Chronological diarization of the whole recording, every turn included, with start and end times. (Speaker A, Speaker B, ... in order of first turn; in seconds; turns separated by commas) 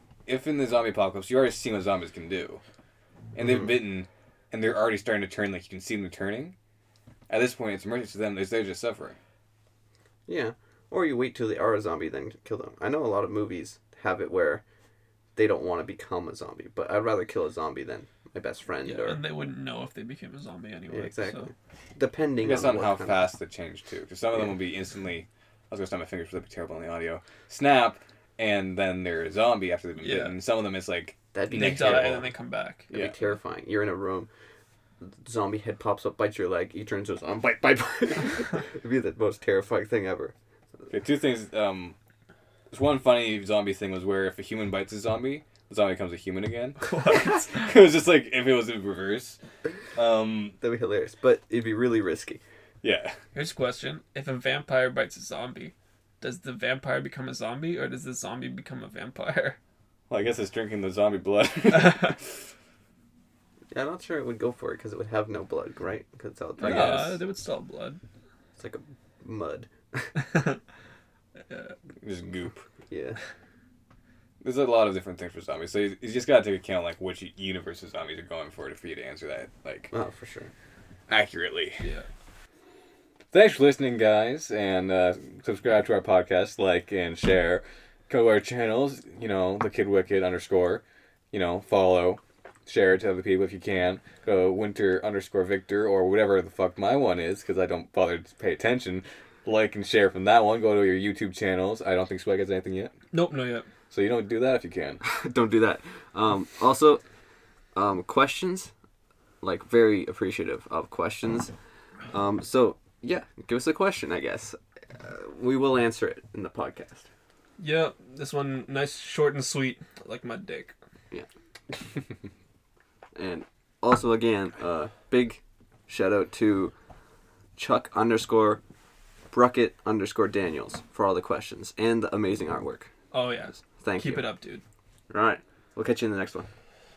Speaker A: 0.3-2.6, Speaker A: 3.4-6.5, Speaker B: 3.4-3.7, Speaker A: 7.3-9.2, Speaker B: 10.3-14.6, Speaker B: 15.4-19.2, Speaker C: 18.8-21.5, Speaker B: 20.9-23.3, Speaker A: 22.4-32.3, Speaker C: 30.0-30.4, Speaker B: 31.3-32.3, Speaker C: 31.5-32.9, Speaker B: 32.9-34.3, Speaker B: 35.0-40.4, Speaker A: 40.9-42.0, Speaker A: 42.7-49.4, Speaker C: 46.8-47.8, Speaker A: 50.0-50.6, Speaker B: 50.6-52.4, Speaker A: 52.8-53.2, Speaker C: 53.3-59.6, Speaker A: 60.1-62.3, Speaker C: 61.7-62.1, Speaker B: 63.7-67.2, Speaker C: 66.6-68.0, Speaker A: 66.6-67.2, Speaker B: 68.6-70.2, Speaker C: 71.5-71.7, Speaker A: 72.0-72.7, Speaker B: 72.9-73.2, Speaker A: 74.4-79.9, Speaker B: 79.9-80.5, Speaker A: 81.1-81.8, Speaker C: 81.8-82.1, Speaker A: 83.3-102.9, Speaker C: 103.1-103.7, Speaker A: 103.9-105.0, Speaker B: 105.0-107.0, Speaker B: 107.8-108.7, Speaker B: 109.4-111.5, Speaker B: 112.1-117.1, Speaker C: 117.6-120.7, Speaker B: 123.2-126.7, Speaker B: 127.6-128.6, Speaker B: 129.3-132.9, Speaker C: 133.1-134.6, Speaker B: 133.8-134.3, Speaker B: 135.1-136.5